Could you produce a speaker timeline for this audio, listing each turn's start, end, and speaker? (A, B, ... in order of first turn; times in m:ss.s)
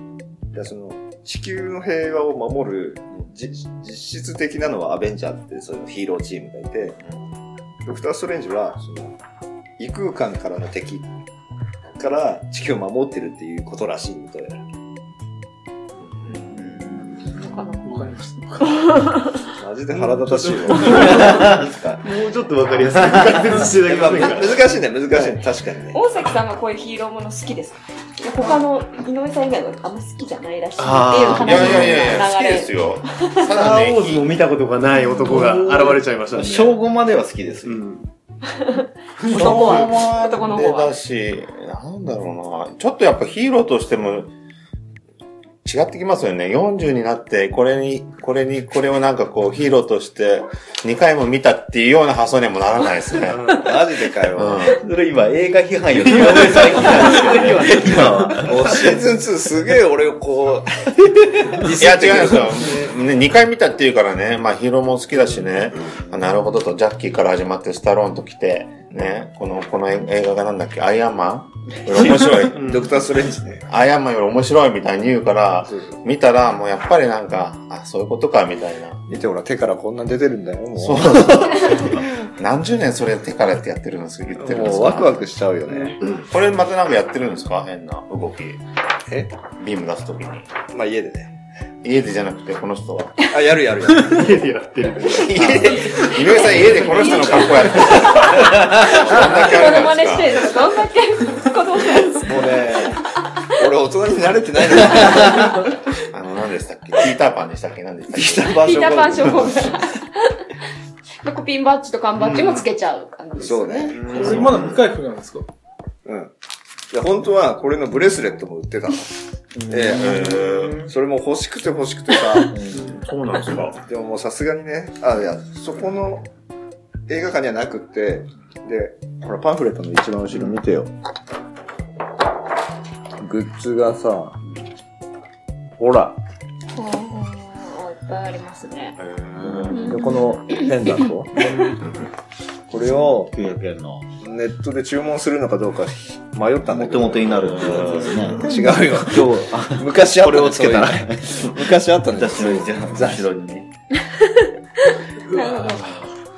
0:00.5-0:07.0 A
0:07.8-0:09.2 A
0:09.8-0:11.1 A
0:12.0-0:14.6 A
0:16.0-0:16.8 B
0:16.5-0:17.5 C
0:17.5-0:19.4 D
0:17.8-0:18.8 E
0:19.6-0:21.4 A
0:19.9-0:25.2 F
0:20.8-0:22.0 C
0:22.9-0:23.5 C
0:23.8-0:26.0 A
0:25.9-0:33.5 D
0:30.8-0:32.0 F
0:31.2-0:34.4 B
0:31.3-0:31.8 C
0:33.5-0:36.8 F
0:35.1-0:37.8 C
0:37.6-0:38.1 F
0:38.5-0:41.0 D
0:39.2-0:39.9 F
0:39.3-0:44.3 B
0:45.6-0:53.6 B
0:53.3-0:53.7 F
0:53.5-0:54.8 A
0:54.3-0:54.8 B
0:54.7-0:58.9 C
0:56.0-0:58.7 F
0:58.3-1:02.8 A
1:01.3-1:01.6 C
1:01.6-1:12.8 B
1:12.5-1:13.7 A
1:12.6-1:12.8 F
1:13.7-1:19.0 B
1:15.6-1:16.0 A
1:19.1-1:21.9 A
1:20.8-1:25.2 B
1:24.4-1:26.0 A
1:26.1-1:28.6 B
1:29.1-1:29.3 A
1:29.6-1:30.5 B
1:30.7-1:31.3 A
1:31.8-1:33.3 B
1:33.3-1:34.4 A
1:34.0-1:38.0 F
1:35.1-1:40.5 B
1:35.8-1:43.5 D
1:42.2-1:45.6 A
1:46.1-1:48.7 B
1:48.1-1:49.8 A
1:48.4-1:50.4 D
1:51.2-1:54.0 D
1:52.3-1:52.6 F
1:53.4-1:54.4 A
1:54.0-1:54.7 F
1:54.0-1:54.8 B
1:54.1-1:55.5 E
1:56.0-1:56.3 A
1:56.9-2:02.8 A
1:59.8-2:00.9 B
2:02.9-2:03.8 B
2:03.7-2:06.3 A
2:07.1-2:10.9 A
2:13.2-2:14.4 A
2:15.8-2:16.2 A
2:16.7-2:19.0 D
2:19.0-2:20.0 B
2:19.4-2:20.2 C
2:19.7-2:20.7 D
2:19.7-2:21.6 A
2:22.7-2:23.3 A
2:23.0-2:24.0 C
2:24.2-2:33.3 A
2:26.7-2:33.7 C
2:27.2-2:28.4 B
2:35.3-2:36.0 D
2:35.3-2:35.9 F
2:35.4-2:36.0 E